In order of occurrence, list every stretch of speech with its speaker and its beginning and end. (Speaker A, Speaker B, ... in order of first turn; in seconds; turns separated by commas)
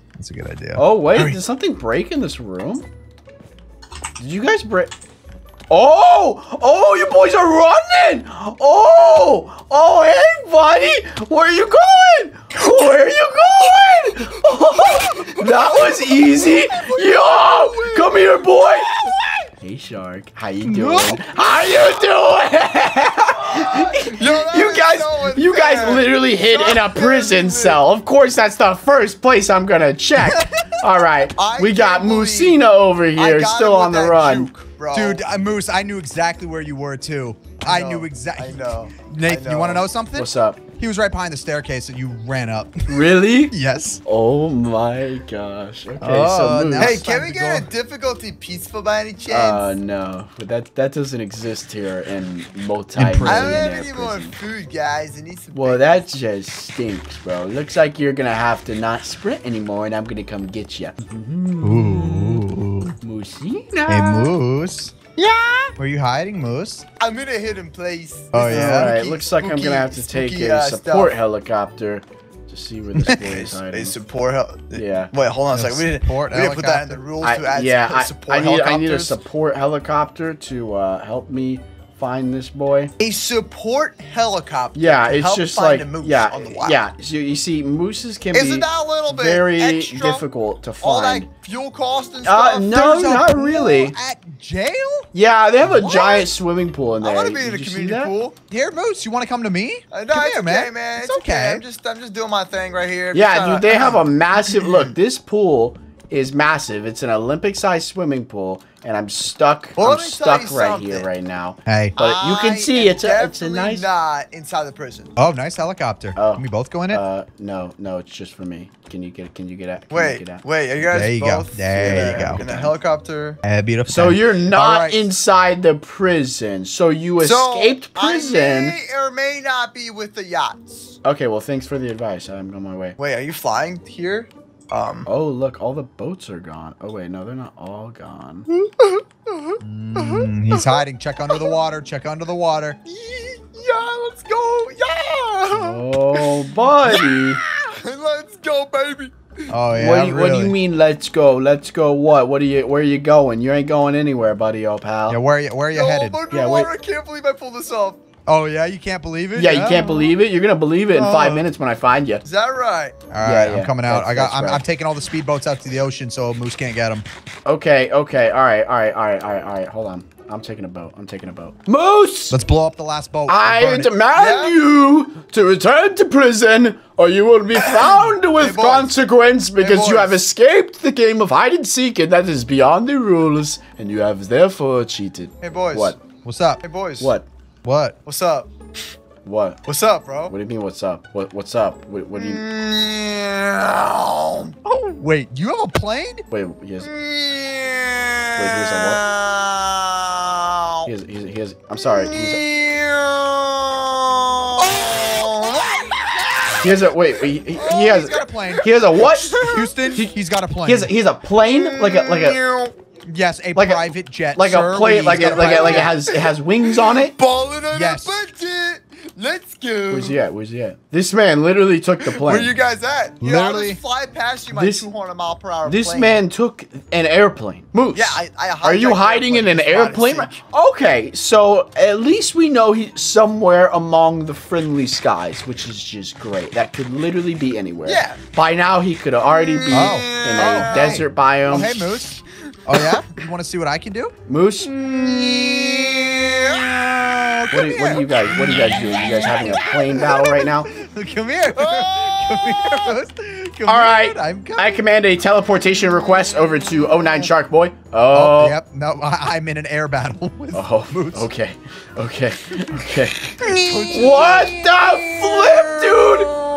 Speaker A: 0.1-0.8, Speaker B: 0.7-2.9, Speaker B: 4.2-4.9, Speaker B: 5.7-19.1, Speaker C: 14.2-18.3, Speaker B: 19.6-34.5, Speaker C: 20.7-21.3, Speaker C: 23.5-27.9, Speaker A: 30.2-30.5, Speaker C: 31.2-35.2, Speaker A: 34.9-44.0, Speaker C: 37.6-39.9, Speaker B: 40.1-40.6, Speaker B: 42.9-47.0, Speaker A: 46.0-47.7, Speaker C: 46.8-49.7, Speaker B: 49.3-54.3, Speaker A: 53.0-53.6, Speaker C: 53.2-56.1, Speaker B: 55.5-62.4, Speaker A: 61.6-63.0, Speaker B: 63.0-64.4, Speaker A: 63.9-64.9, Speaker C: 65.2-65.7, Speaker A: 65.8-66.8, Speaker C: 67.0-71.2, Speaker A: 68.3-68.9, Speaker B: 68.4-74.0, Speaker C: 73.1-79.2, Speaker B: 74.7-75.1, Speaker A: 75.5-77.0, Speaker B: 77.2-82.9, Speaker C: 83.0-86.8, Speaker B: 84.7-91.3, Speaker C: 88.3-90.2, Speaker C: 90.8-92.8, Speaker B: 92.2-94.0, Speaker A: 92.7-95.1, Speaker B: 95.1-98.1, Speaker A: 95.6-96.3, Speaker C: 95.9-96.2, Speaker C: 97.0-98.3, Speaker A: 98.5-101.6, Speaker C: 99.9-104.9, Speaker B: 103.1-113.9, Speaker C: 109.8-111.1, Speaker A: 111.7-112.0, Speaker C: 112.0-115.1, Speaker A: 115.2-117.0, Speaker B: 116.1-120.4, Speaker C: 119.9-123.4, Speaker A: 120.8-122.4, Speaker B: 121.8-122.7, Speaker A: 123.4-125.0, Speaker B: 123.9-128.8, Speaker C: 127.2-131.0, Speaker B: 131.0-132.9, Speaker C: 133.0-135.1, Speaker B: 135.1-138.5, Speaker C: 138.5-141.6, Speaker A: 139.6-142.8, Speaker C: 142.8-149.6, Speaker B: 145.5-147.4, Speaker A: 149.5-150.6, Speaker B: 149.7-155.2, Speaker A: 155.1-156.2, Speaker C: 155.7-158.0, Speaker B: 156.3-156.7, Speaker A: 158.2-160.1, Speaker B: 159.3-162.2, Speaker A: 160.9-161.4, Speaker C: 162.2-163.1, Speaker A: 163.1-167.0, Speaker B: 163.2-164.6, Speaker B: 167.4-172.4, Speaker A: 172.3-173.9, Speaker B: 173.3-186.0, Speaker C: 174.1-174.6, Speaker C: 177.5-178.9, Speaker C: 179.6-180.2, Speaker C: 185.4-186.0, Speaker A: 186.2-186.6, Speaker C: 186.6-187.1, Speaker B: 187.0-187.3, Speaker A: 187.6-187.9, Speaker C: 188.0-188.5, Speaker B: 189.2-189.6, Speaker C: 189.6-190.3, Speaker B: 190.3-192.4, Speaker C: 192.1-194.5, Speaker A: 194.6-196.2, Speaker B: 196.3-196.9, Speaker C: 196.8-200.9, Speaker B: 198.3-199.0, Speaker B: 200.8-202.4, Speaker C: 201.8-206.8, Speaker B: 206.6-212.4, Speaker C: 207.4-209.9, Speaker A: 207.8-210.9, Speaker C: 211.5-212.7, Speaker A: 213.1-216.0, Speaker B: 213.5-217.1, Speaker C: 215.1-220.2, Speaker A: 217.7-218.2, Speaker B: 219.9-222.5, Speaker C: 222.0-226.2, Speaker A: 223.2-223.8, Speaker B: 224.5-224.9, Speaker B: 225.6-241.9, Speaker C: 227.9-230.4, Speaker C: 237.8-238.2, Speaker C: 239.4-241.1, Speaker A: 239.7-244.1, Speaker B: 244.3-244.7, Speaker C: 244.6-246.9, Speaker A: 244.8-246.0, Speaker A: 246.6-254.8, Speaker B: 247.5-250.8, Speaker C: 251.5-253.0, Speaker B: 253.7-258.6, Speaker A: 258.1-261.3, Speaker B: 260.5-266.3, Speaker A: 263.4-264.8, Speaker C: 263.5-264.5